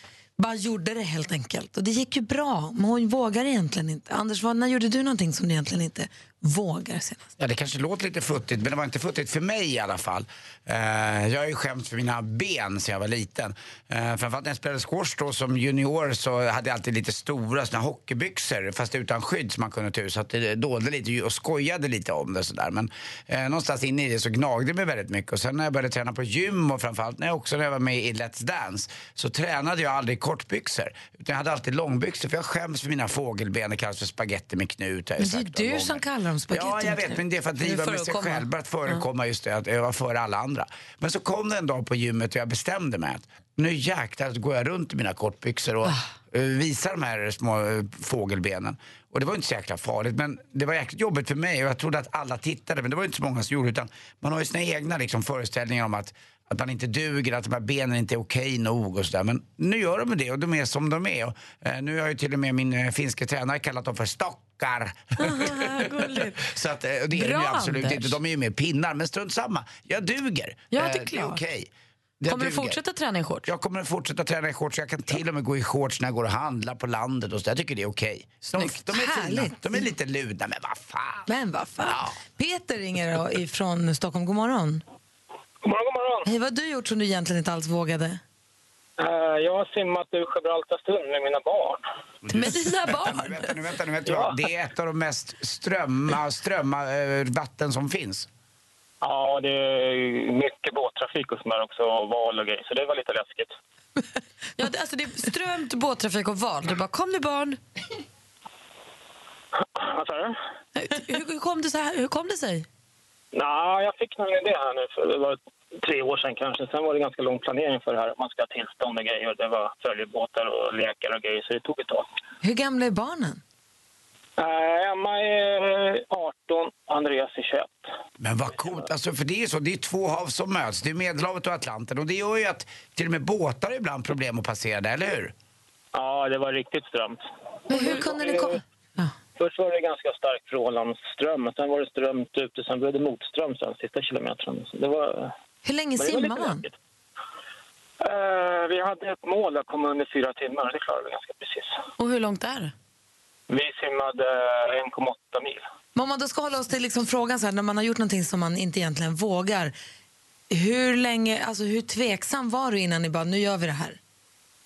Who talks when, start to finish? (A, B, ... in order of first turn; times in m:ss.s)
0:00.4-0:07.3 A
0:07.4-1:12.8 B
0:35.2-0:37.2 A
0:37.6-0:39.0 C
1:05.2-1:06.6 C
1:07.1-1:08.2 C
1:10.7-1:11.4 C
1:12.3-1:13.5 C
1:13.5-1:21.3 B
1:18.6-1:19.9 A
1:21.3-1:24.8 A
1:21.9-1:22.2 B
1:25.6-1:26.3 D
1:26.3-1:28.2 A
1:29.0-1:31.8 D
1:32.2-1:38.3 B
1:32.3-1:33.5 C
1:34.1-1:34.3 D
1:39.0-1:43.5 D
1:44.6-1:47.6 C
1:49.6-1:50.4 D
1:50.8-1:52.7 C
1:53.3-2:02.1 D
2:02.4-2:03.4 A
2:04.4-2:07.9 D
2:08.2-2:15.3 B
2:16.0-2:18.6 D
2:17.7-2:19.1 A
2:19.4-2:25.3 D
2:25.6-2:26.6 A
2:26.0-2:26.7 D
2:28.0-2:31.8 D
2:32.0-2:32.7 C
2:33.5-2:35.6 D
2:36.0-2:39.8 A
2:40.5-2:44.0 A